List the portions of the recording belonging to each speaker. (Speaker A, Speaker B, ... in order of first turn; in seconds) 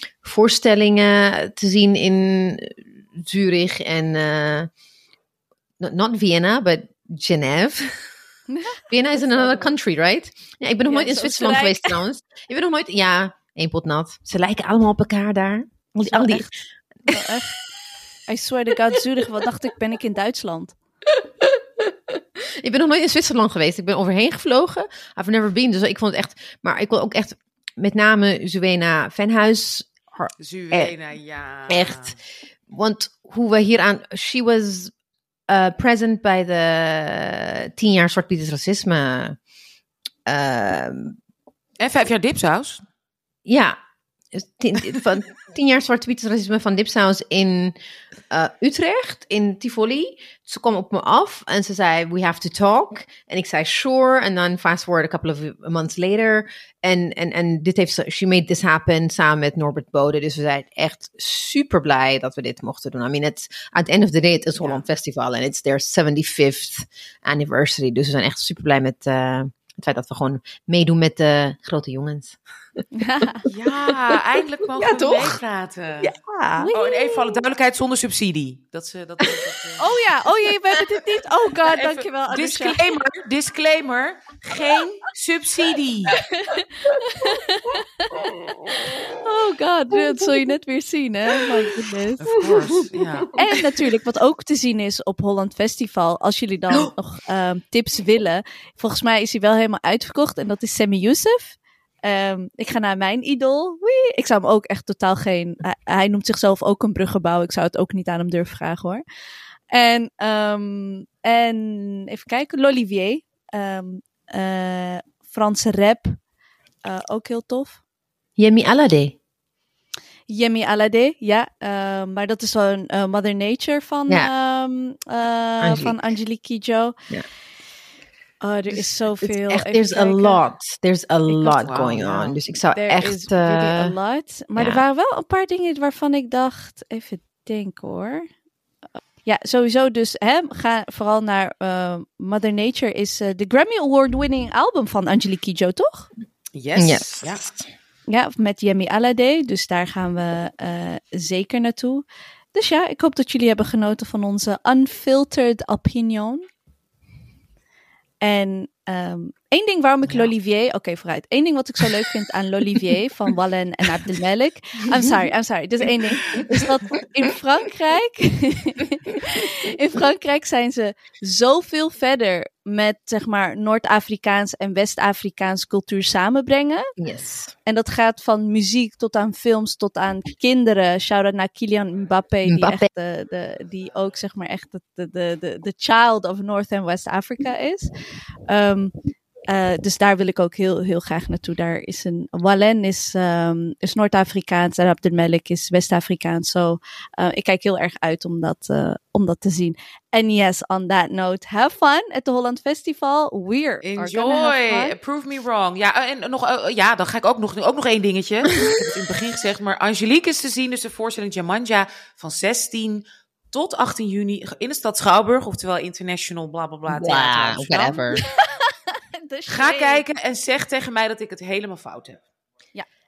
Speaker A: 0.2-4.7, 5.8-8.0, 8.9-16.5, 17.1-17.3, 21.4-30.9, 31.7-32.2, 32.7-34.9, 35.5-39.4, 40.2-41.2, 43.4-43.8, 44.3-47.8, 48.3-72.8, 73.9-74.2, 74.7-75.4, 76.0-76.7, 88.3-89.1, 89.9-90.5, 92.3-93.7, 118.4-119.1, 125.6-126.0, 128.7-133.9, 134.5-134.8, 146.8-147.7, 164.9-165.2, 166.4-166.7, 177.0-177.5, 182.4-182.9, 216.9-218.2
Speaker B: 8.5-9.7, 10.8-12.0, 16.0-16.5, 17.1-17.6, 18.3-20.8, 73.0-73.4, 76.5-77.5, 79.8-82.9, 86.1-92.5, 93.3-109.0, 109.7-116.2, 116.8-117.8, 120.3-126.9, 128.4-130.4, 131.3-138.3, 139.2-146.1, 148.1-156.4, 158.2-176.9, 177.7-187.9, 188.5-188.9, 189.5-204.9, 218.2-220.1
Speaker C: 30.4-32.2, 41.8-42.8, 64.6-64.8, 73.4-76.1, 76.7-79.9, 81.6-86.2, 92.2-93.4, 131.5-132.0, 146.5-147.4, 203.8-218.2, 219.5-222.2